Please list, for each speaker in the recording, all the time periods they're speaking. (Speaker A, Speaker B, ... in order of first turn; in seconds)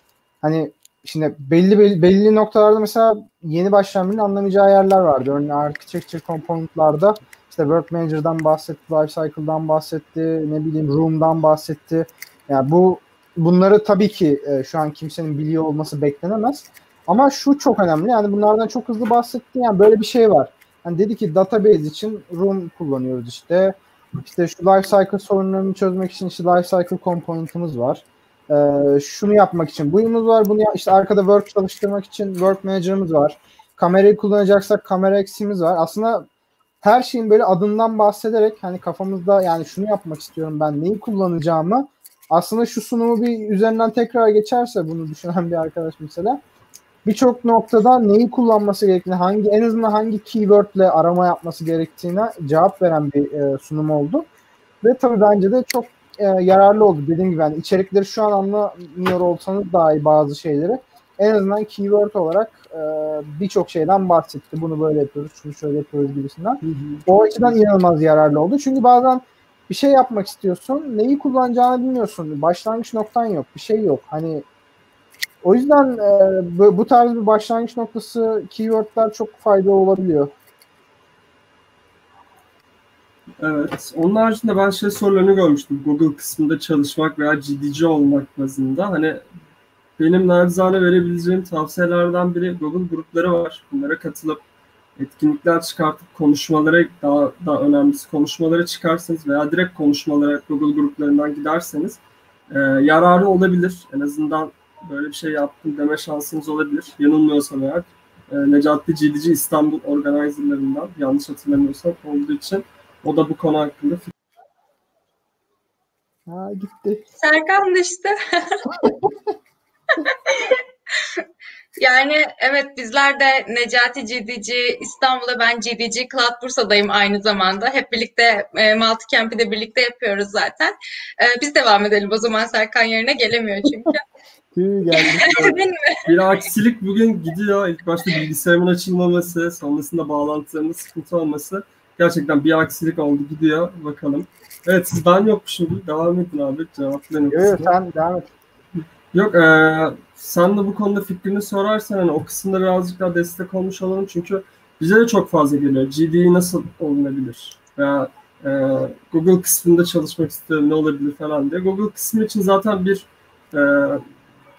Speaker A: 0.4-36.3, 36.8-46.4, 47.0-54.3, 54.8-74.4, 75.4-80.3, 116.3-117.0, 134.5-135.6, 147.3-148.3
Speaker B: 66.6-67.5, 83.4-89.2, 90.0-94.4, 95.0-102.0, 102.5-114.1, 135.3-135.5, 136.1-147.8, 148.8-164.1
Speaker C: 117.2-118.9, 120.0-121.2, 121.8-134.0, 134.9-136.2